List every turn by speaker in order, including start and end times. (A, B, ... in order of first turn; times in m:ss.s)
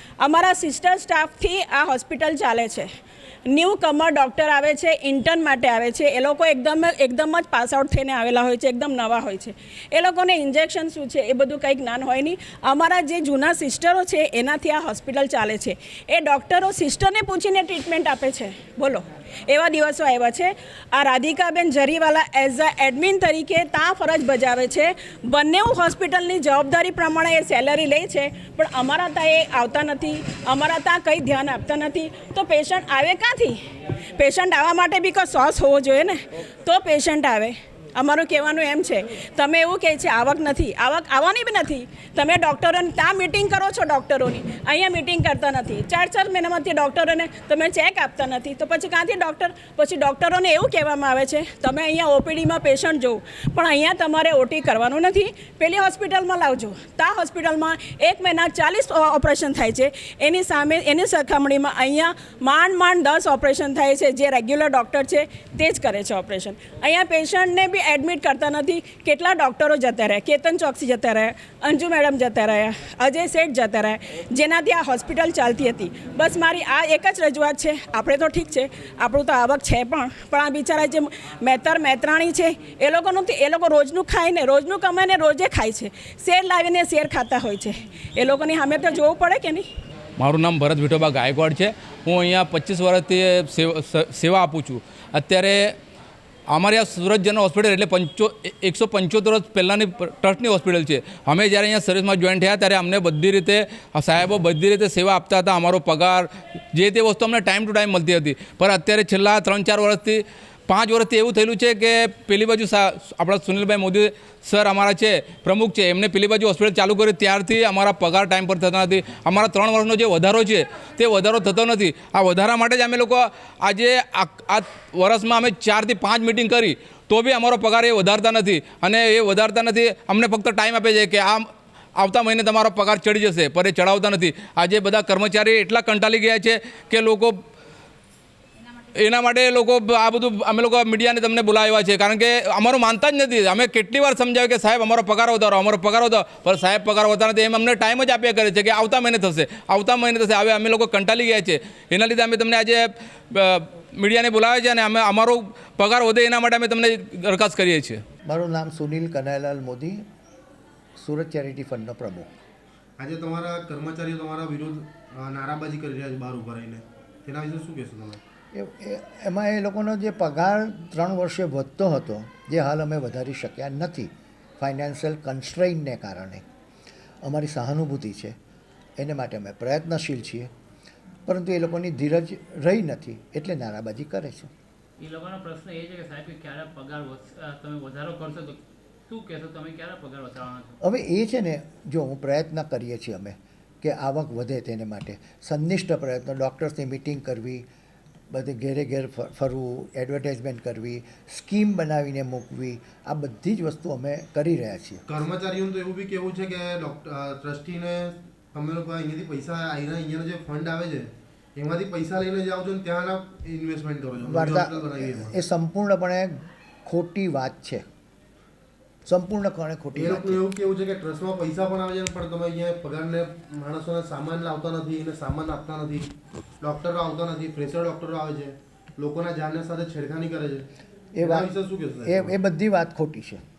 0:00.2-0:02.9 A
0:03.5-1:29.7 A
1:30.2-1:35.7 B
1:36.5-2:17.4 B
2:18.9-2:38.0 B
2:38.2-2:40.0 C
2:41.0-2:42.4 C
2:43.0-2:48.2 D
2:48.5-2:56.4 C
2:57.2-2:58.4 C
2:59.0-3:00.5 C
3:01.3-3:04.5 C
3:05.0-3:10.7 E
3:10.8-3:17.6 C
3:18.3-3:25.0 C
3:25.1-3:35.4 D
3:34.2-3:37.8 C
3:39.0-3:40.4 C
3:39.9-3:46.1 D
3:46.6-3:50.7 D
3:51.1-3:51.5 C
3:51.2-3:52.3 D
3:52.0-3:53.4 C